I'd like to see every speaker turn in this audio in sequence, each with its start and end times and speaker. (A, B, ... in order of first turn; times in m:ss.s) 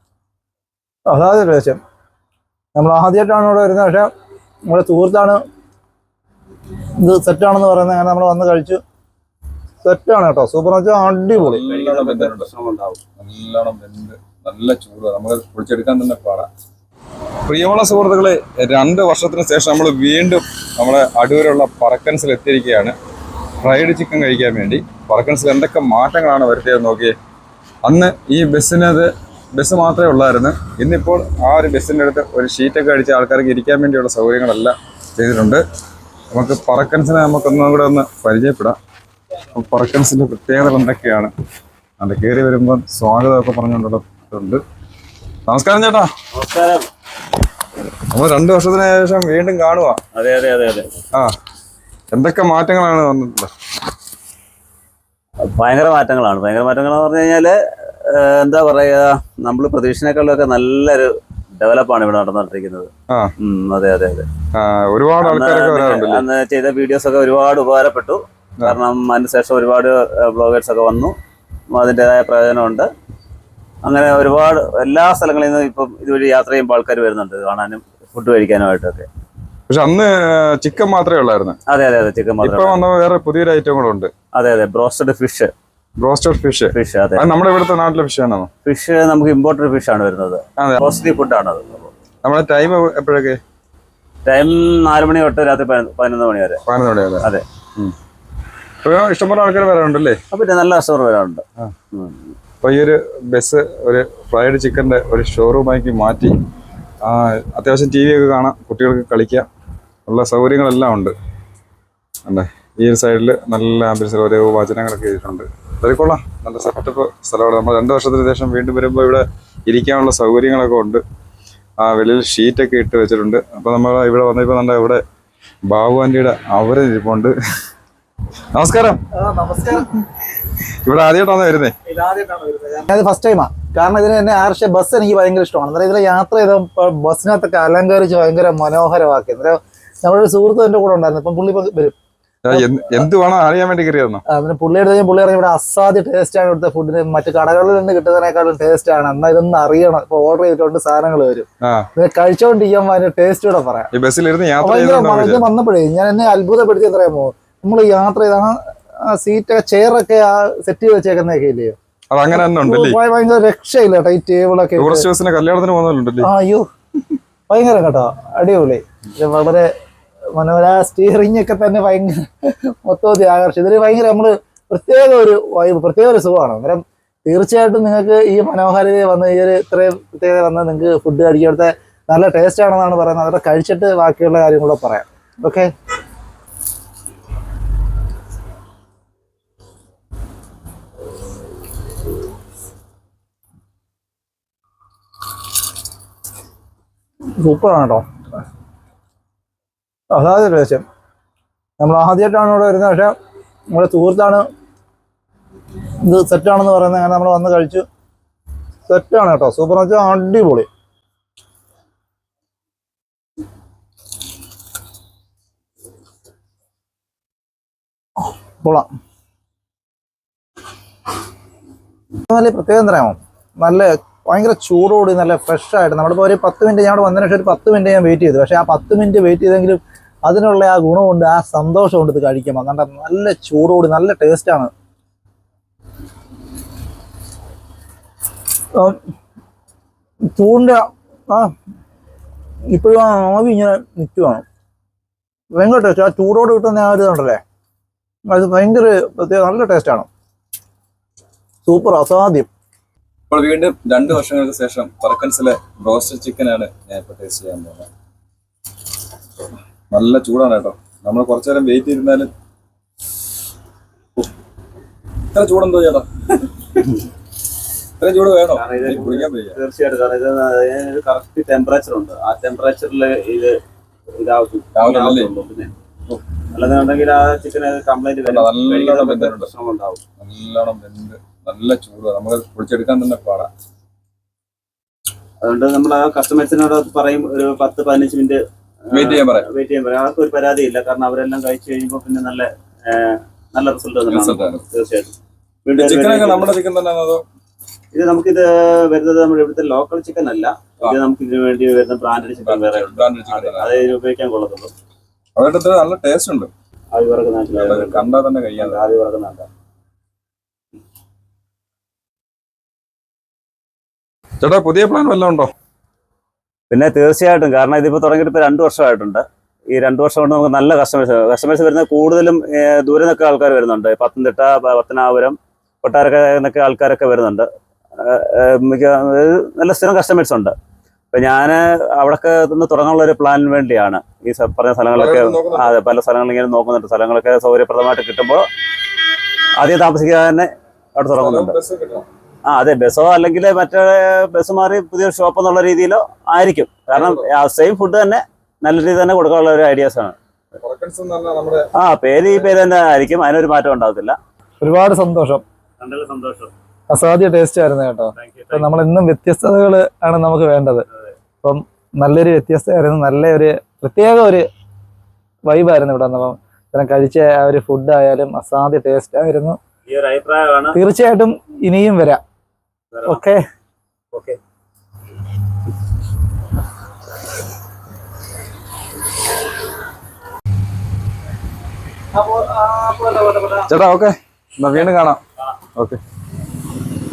0:01.1-0:01.8 A
0:02.8-0:04.1 A
0:04.7-0:05.4 A
0:07.0-0:08.8 A
0:09.8-0:11.7 A
0:11.3-0:12.5 B
0:11.7-0:13.0 C
0:13.2-0:16.5 B
0:17.5-0:23.0 B
0:23.6-0:27.1 B
0:27.8-0:35.6 B
0:36.3-0:38.8 B
0:39.6-0:41.3 B
0:42.0-0:44.6 B
0:45.5-0:46.1 B
0:46.3-0:46.8 C
0:48.1-0:50.0 B
0:50.2-0:50.9 C
0:52.1-0:53.5 B
0:55.5-1:04.3 C
1:04.5-1:06.2 B
1:05.2-1:11.2 C
1:11.7-1:12.9 C
1:13.8-1:19.1 C
1:19.7-1:21.6 B
1:21.7-1:22.8 C
1:22.4-1:24.1 B
1:24.3-1:25.5 C
1:26.0-1:28.5 B
1:26.7-1:27.3 C
1:28.6-1:31.9 C
1:30.6-1:30.8 B
1:32.2-1:33.4 B
1:34.2-1:36.6 C
1:36.7-1:37.2 B
1:38.8-1:40.2 B
1:40.3-1:42.3 C
1:42.6-1:46.4 B
1:47.0-1:49.5 B
1:50.1-1:51.2 B
1:52.3-2:01.0 B
2:01.8-2:05.0 B
2:05.7-2:07.3 B
2:08.5-2:09.0 B
2:09.1-2:09.9 A
2:10.8-2:11.8 B
2:11.9-2:22.0 A
2:22.4-2:24.2 B
2:22.5-2:23.0 A
2:24.3-2:33.9 A
2:31.6-2:31.9 B
2:33.9-2:35.5 B
2:34.6-2:41.8 A
2:42.1-2:43.0 B
2:42.3-2:45.1 A
2:44.8-2:46.3 B
2:46.2-2:46.7 A
2:47.5-2:49.7 A
2:50.4-3:05.7 A
3:17.4-3:18.0 A
3:20.1-3:20.8 A
3:21.8-3:23.1 A
3:23.7-3:24.4 A
3:26.0-3:27.8 A
3:28.9-3:30.7 A
3:38.6-3:38.9 A
3:42.3-3:54.7 A
4:00.4-4:01.5 A
4:02.7-4:04.4 A
4:05.6-4:07.4 A
4:08.3-4:10.1 A
4:11.7-4:12.5 A
4:13.3-4:17.9 B
4:19.9-4:22.3 B
4:25.3-4:26.8 B
4:28.0-4:29.6 B
4:28.5-4:33.6 C
4:34.2-4:35.7 C
4:34.8-4:35.3 B
4:36.5-4:40.0 C
4:38.2-4:39.5 B
4:40.2-4:43.5 B
4:45.4-4:55.1 C
4:48.9-4:49.5 B
4:54.1-4:54.6 B
4:55.7-4:56.6 C
4:55.8-4:57.2 B
4:57.9-5:04.7 C
5:02.4-5:03.8 B
5:05.4-5:06.5 B
5:06.9-5:08.1 C
5:07.6-5:08.9 B
5:08.6-5:09.5 C
5:14.4-5:15.5 B
5:16.7-5:27.5 C
5:28.0-5:30.5 C
5:31.1-5:38.4 C
5:34.9-5:35.8 B
5:39.6-5:41.6 C
5:41.2-5:42.1 B
5:42.5-5:50.2 C
5:46.9-5:47.2 B
5:50.6-5:51.7 B
5:51.8-5:54.2 C
5:52.2-5:52.5 B
5:54.6-5:55.4 A
5:55.8-5:56.5 C
5:56.9-6:00.9 A
5:58.2-5:58.7 C
6:01.4-6:04.5 A
6:05.5-6:09.6 A
6:09.9-6:10.8 C
6:10.8-6:12.2 A
6:12.9-6:13.2 C
6:13.1-6:13.4 A
6:14.1-6:14.4 C
6:22.2-6:23.7 A
6:23.7-6:25.2 B